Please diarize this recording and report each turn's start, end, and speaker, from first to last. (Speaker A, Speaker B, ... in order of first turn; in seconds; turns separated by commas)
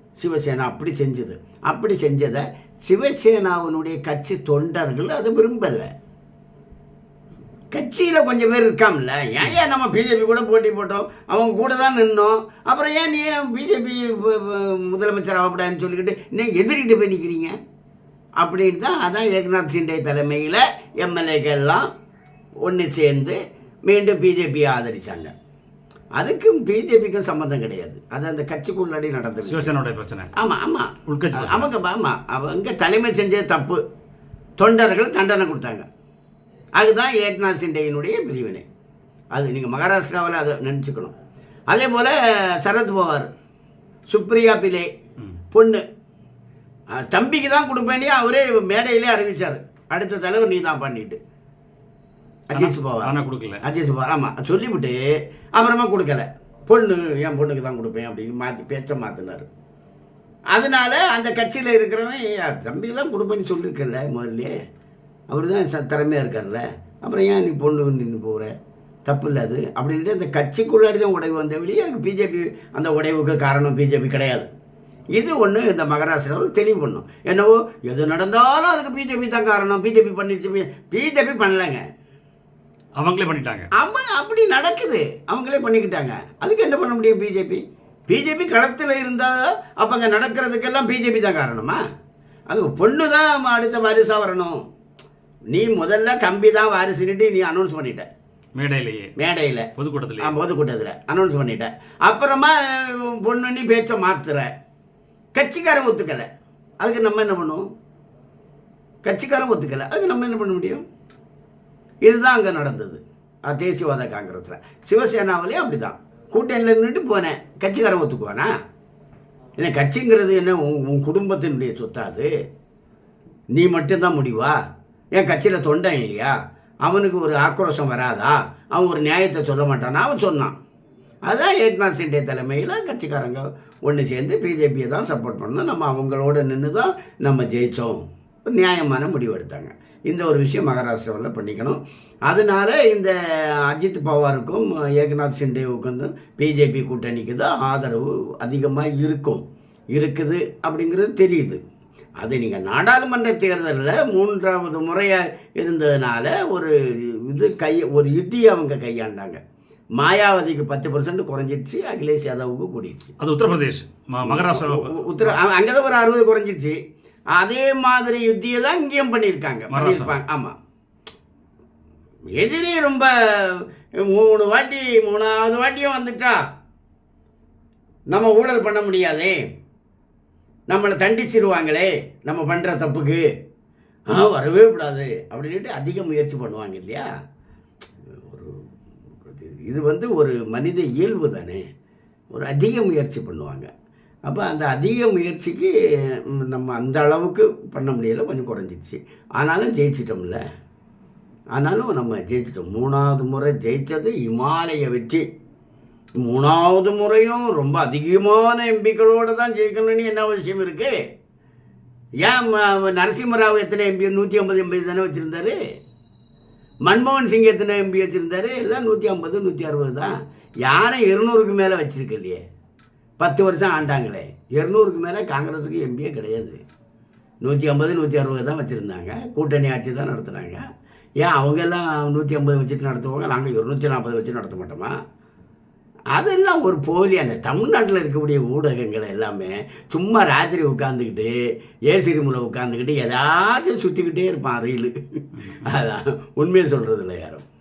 Speaker A: 0.2-5.9, Speaker A: 7.7-17.5, Speaker A: 18.4-21.9, Speaker A: 22.6-25.3, Speaker A: 26.2-29.7, Speaker B: 29.5-30.3, Speaker A: 30.4-33.8, Speaker B: 31.1-31.7, Speaker A: 34.6-35.9, Speaker A: 36.8-38.6, Speaker A: 39.3-41.1, Speaker A: 41.7-43.3, Speaker A: 44.1-44.9, Speaker A: 45.5-45.8, Speaker A: 46.9-51.2, Speaker A: 52.5-55.0, Speaker B: 52.5-53.6, Speaker A: 55.5-59.5, Speaker A: 60.5-64.5, Speaker A: 65.3-68.5, Speaker A: 69.1-74.5, Speaker A: 75.2-81.8, Speaker B: 83.0-83.7, Speaker A: 83.8-91.8, Speaker A: 92.5-94.6, Speaker A: 95.5-98.1, Speaker B: 98.6-99.1, Speaker A: 99.2-104.5, Speaker B: 99.8-100.3, Speaker A: 105.3-106.3, Speaker A: 106.8-107.7, Speaker A: 109.0-110.8, Speaker A: 112.0-118.5, Speaker A: 119.6-122.3, Speaker A: 123.5-124.6, Speaker A: 125.2-126.3, Speaker A: 126.9-130.6, Speaker A: 131.3-143.1, Speaker A: 143.7-151.6, Speaker A: 152.2-159.4, Speaker A: 160.0-163.2, Speaker B: 163.2-165.4, Speaker A: 164.2-166.8, Speaker A: 167.3-170.6, Speaker B: 169.7-170.1, Speaker A: 172.4-176.4, Speaker A: 178.1-179.4, Speaker A: 180.7-183.2, Speaker A: 184.1-187.1, Speaker A: 188.2-188.6, Speaker A: 189.2-191.6, Speaker A: 192.3-193.7, Speaker A: 194.3-195.7, Speaker A: 196.3-200.4, Speaker A: 201.6-205.2, Speaker A: 206.2-211.0, Speaker A: 212.2-215.6, Speaker A: 216.9-220.1, Speaker A: 220.6-222.4, Speaker A: 223.2-226.6, Speaker A: 227.4-230.6, Speaker A: 231.2-234.9, Speaker A: 236.1-241.3, Speaker A: 241.9-244.9, Speaker B: 245.3-245.7, Speaker A: 245.5-247.4